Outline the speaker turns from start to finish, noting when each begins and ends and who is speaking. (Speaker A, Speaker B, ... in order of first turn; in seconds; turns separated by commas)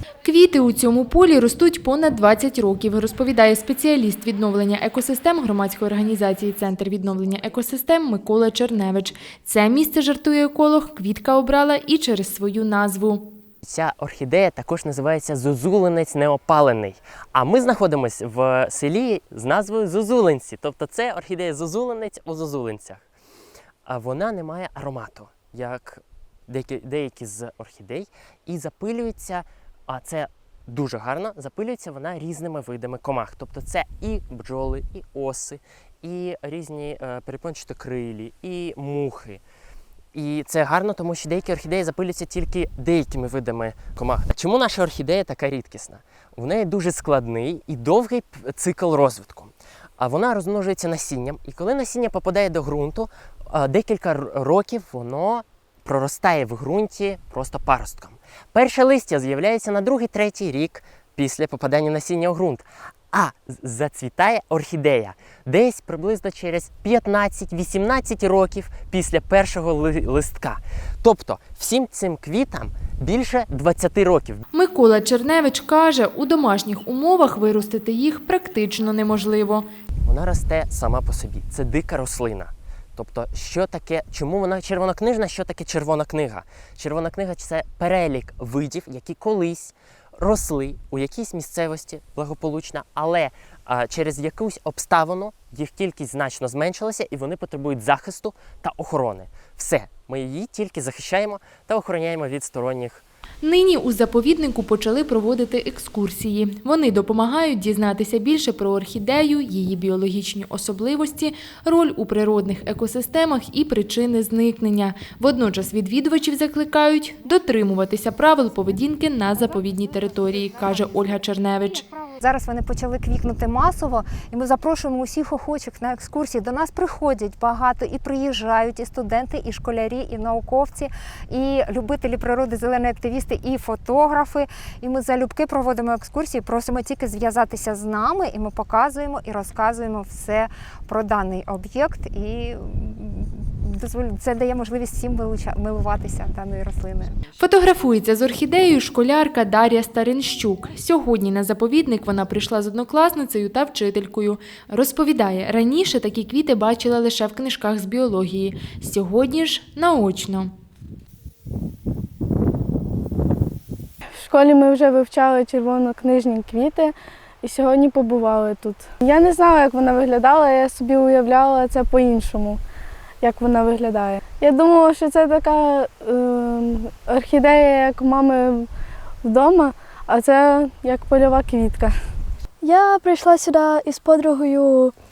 Speaker A: 0.2-13.3, Speaker B: 13.6-23.1, Speaker B: 23.9-39.4, Speaker B: 40.1-74.4, Speaker A: 74.5-79.7, Speaker B: 80.0-103.0, Speaker A: 103.4-121.8, Speaker C: 119.5-147.2, Speaker A: 147.4-160.5, Speaker D: 164.2-172.6, Speaker D: 173.2-178.7, Speaker D: 179.2-181.9, Speaker E: 182.6-184.9